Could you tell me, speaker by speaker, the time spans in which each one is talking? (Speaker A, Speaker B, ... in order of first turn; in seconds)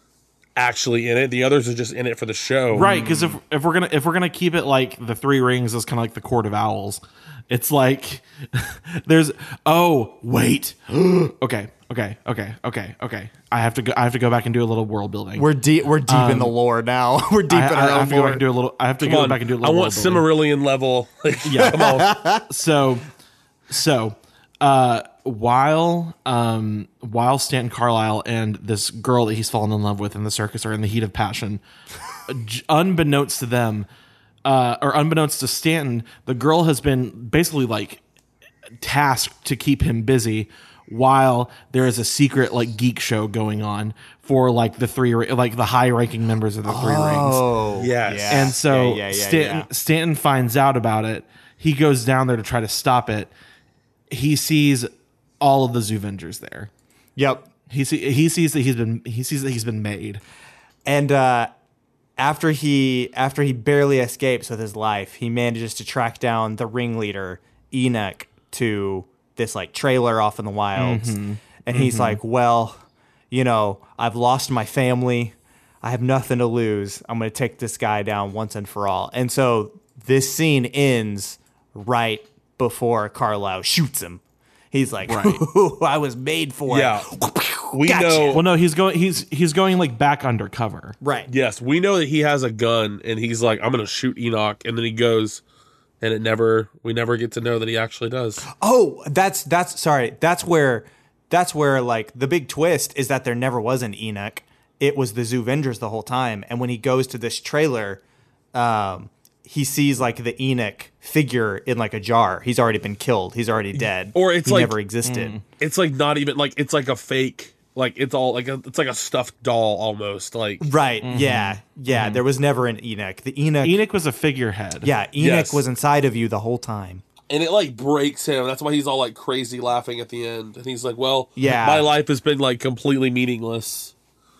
Speaker A: 0.6-2.9, 19.0-22.1, 47.7-48.5, 86.7-87.1, 87.7-88.4, 91.3-95.4, 96.0-98.5, 114.1-114.8, 115.6-120.7, 125.2-125.6, 127.3-133.9
Speaker B: 2.7-15.5, 16.1-16.5, 17.5-20.3, 21.4-23.1, 23.7-31.6, 32.3-33.9, 34.4-38.0, 38.8-47.5, 48.3-53.3, 54.1-54.9, 55.4-56.7, 57.7-60.2, 70.8-72.2, 85.1-85.4, 88.3-91.0, 115.0-115.4, 121.0-122.2, 123.6-124.9
Speaker C: 2.8-3.4, 15.4-18.4, 21.6-22.4, 46.7-49.7, 57.1-57.5, 60.9-61.5, 62.2-88.4, 91.0-91.3, 98.5-108.0, 108.5-115.4, 120.6-123.8, 124.8-127.0, 131.3-131.9